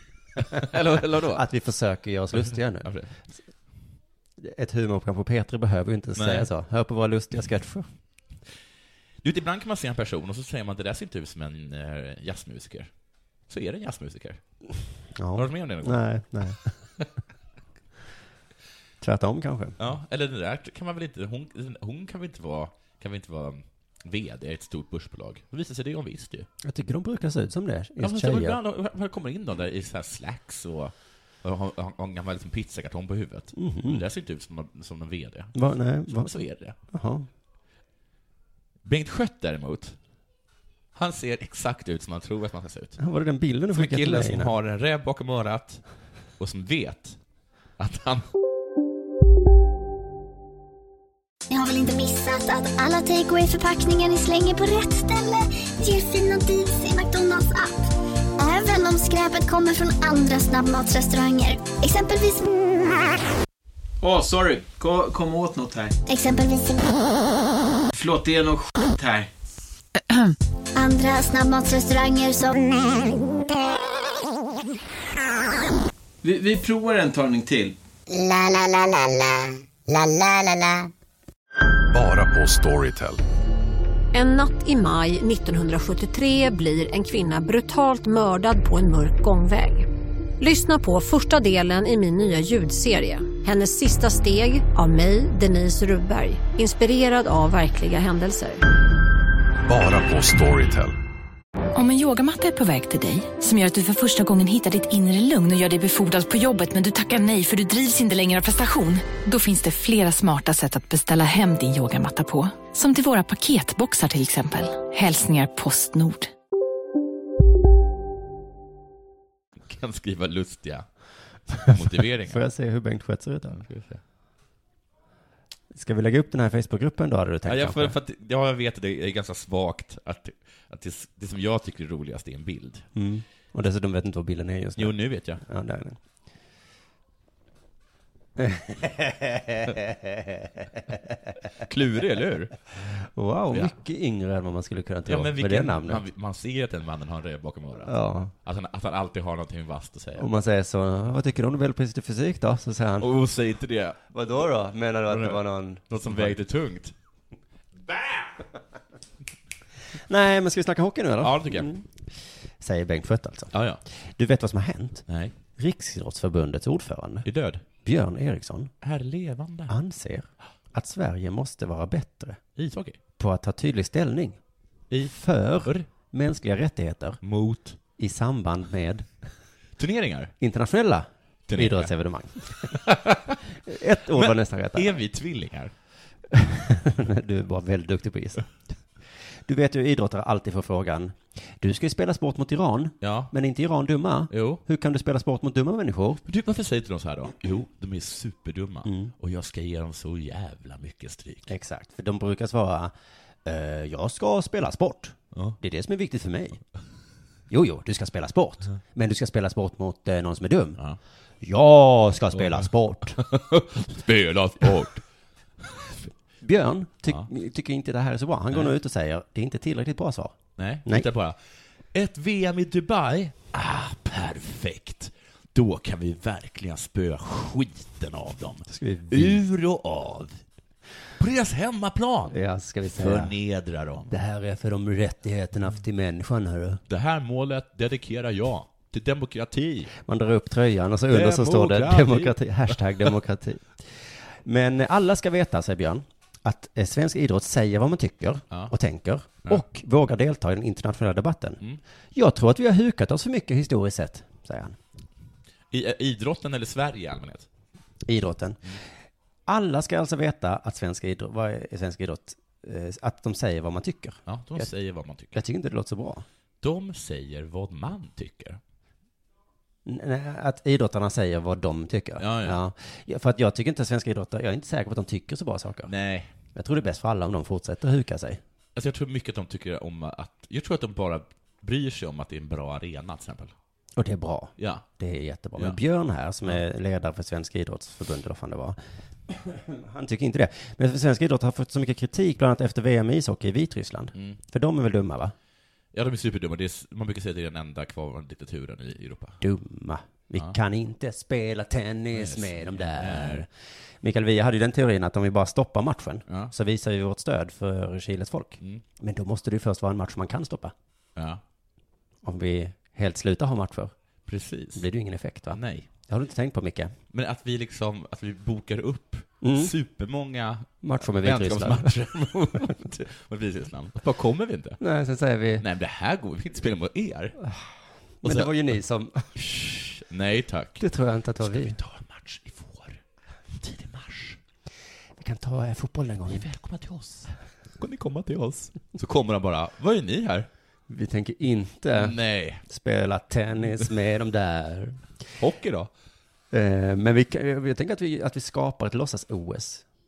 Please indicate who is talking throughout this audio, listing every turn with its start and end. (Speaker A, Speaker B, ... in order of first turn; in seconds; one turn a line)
Speaker A: 0.4-1.4
Speaker B: 1.2-2.9
Speaker A: 2.5-3.1
Speaker B: 4.4-7.9
Speaker A: 6.2-6.5
Speaker A: 9.2-12.9
Speaker A: 13.5-14.4
Speaker B: 15.2-16.7
Speaker A: 15.3-16.0
Speaker B: 19.0-19.8
Speaker A: 19.8-26.5
Speaker B: 26.6-28.6
Speaker A: 28.0-30.9
Speaker A: 31.4-36.8
Speaker B: 33.6-34.0
Speaker B: 35.5-36.3
Speaker B: 36.9-37.3
Speaker A: 38.9-40.0
Speaker A: 41.0-43.0
Speaker B: 43.0-44.5
Speaker A: 43.7-45.8
Speaker A: 46.4-47.2
Speaker A: 47.8-48.2
Speaker C: 51.5-57.8
Speaker C: 58.4-62.6
Speaker D: 64.0-66.0
Speaker C: 66.1-67.1
Speaker D: 67.9-69.3
Speaker C: 70.8-73.2
Speaker D: 76.2-77.8
Speaker C: 78.2-79.1
Speaker C: 80.0-80.8
Speaker E: 81.9-83.2
Speaker F: 84.1-89.9
Speaker F: 90.4-98.6
Speaker E: 99.7-100.9
Speaker G: 101.8-116.3
Speaker A: 119.7-120.9
Speaker A: 121.5-122.4
Speaker B: 122.2-123.6
Speaker A: 123.5-124.0
Speaker B: 125.7-128.0
Speaker A: 127.5-132.9
Speaker B: 133.0-136.0
Speaker A: 134.8-135.4
Speaker B: 138.4-141.0
Speaker A: 141.6-142.6
Speaker B: 143.0-146.0
Speaker A: 145.1-147.9
Speaker B: 147.8-148.3
Speaker A: 148.4-150.3
Speaker B: 150.2-153.1
Speaker A: 153.0-154.0
Speaker B: 154.1-156.4
Speaker A: 155.1-156.9
Speaker A: 157.9-158.2
Speaker B: 160.1-161.9
Speaker A: 161.2-161.7
Speaker B: 162.6-165.0
Speaker A: 163.5-163.8
Speaker B: 165.6-167.3
Speaker A: 167.2-167.6
Speaker B: 167.8-168.7
Speaker A: 168.8-169.7
Speaker B: 169.7-172.4
Speaker A: 172.6-173.0
Speaker B: 173.2-174.4
Speaker A: 174.9-175.9
Speaker B: 175.0-177.2
Speaker A: 177.2-177.8
Speaker B: 178.0-179.1
Speaker A: 179.8-180.3
Speaker B: 180.4-182.8
Speaker A: 181.5-181.9
Speaker A: 182.7-183.4
Speaker B: 183.7-184.9
Speaker A: 184.1-185.7
Speaker B: 186.3-188.5
Speaker B: 189.4-196.2
Speaker A: 193.0-193.3
Speaker A: 194.3-194.6
Speaker A: 196.2-201.5
Speaker B: 198.8-199.1
Speaker B: 201.5-202.9
Speaker B: 203.4-206.6
Speaker B: 207.5-210.8
Speaker B: 211.4-213.2
Speaker A: 212.3-215.0
Speaker A: 215.6-216.0
Speaker B: 216.4-221.1
Speaker A: 220.6-221.4
Speaker A: 221.9-230.4
Speaker B: 228.7-229.4
Speaker A: 231.2-234.1
Speaker B: 232.3-233.3
Speaker B: 234.1-236.8
Speaker A: 236.9-239.9
Speaker B: 240.0-251.6
Speaker A: 241.1-243.1
Speaker B: 252.2-254.8
Speaker A: 255.7-257.5
Speaker B: 258.1-258.8
Speaker B: 259.5-264.7
Speaker A: 264.3-265.4
Speaker B: 265.3-266.2
Speaker A: 266.6-268.6
Speaker B: 269.9-275.9
Speaker A: 272.2-272.6
Speaker A: 275.9-276.3
Speaker B: 276.5-278.4
Speaker A: 278.8-283.5
Speaker B: 284.0-288.8
Speaker A: 284.6-284.9
Speaker B: 289.3-295.3
Speaker A: 295.9-299.4
Speaker B: 299.4-303.5
Speaker A: 302.1-303.4
Speaker B: 304.0-310.7
Speaker A: 311.2-311.4
Speaker B: 312.2-313.9
Speaker A: 314.3-314.9
Speaker B: 314.8-316.9
Speaker A: 315.5-315.9
Speaker A: 317.1-324.8
Speaker B: 319.4-319.7
Speaker B: 320.8-322.7
Speaker B: 324.8-325.7
Speaker A: 325.6-327.4
Speaker B: 328.2-329.3
Speaker A: 328.2-328.7
Speaker A: 329.4-330.8
Speaker B: 330.8-331.8
Speaker A: 331.4-333.0
Speaker A: 333.6-334.4
Speaker B: 335.2-336.5
Speaker A: 336.3-340.5
Speaker B: 340.9-345.0
Speaker A: 341.9-342.6
Speaker A: 345.4-345.9
Speaker B: 346.5-349.9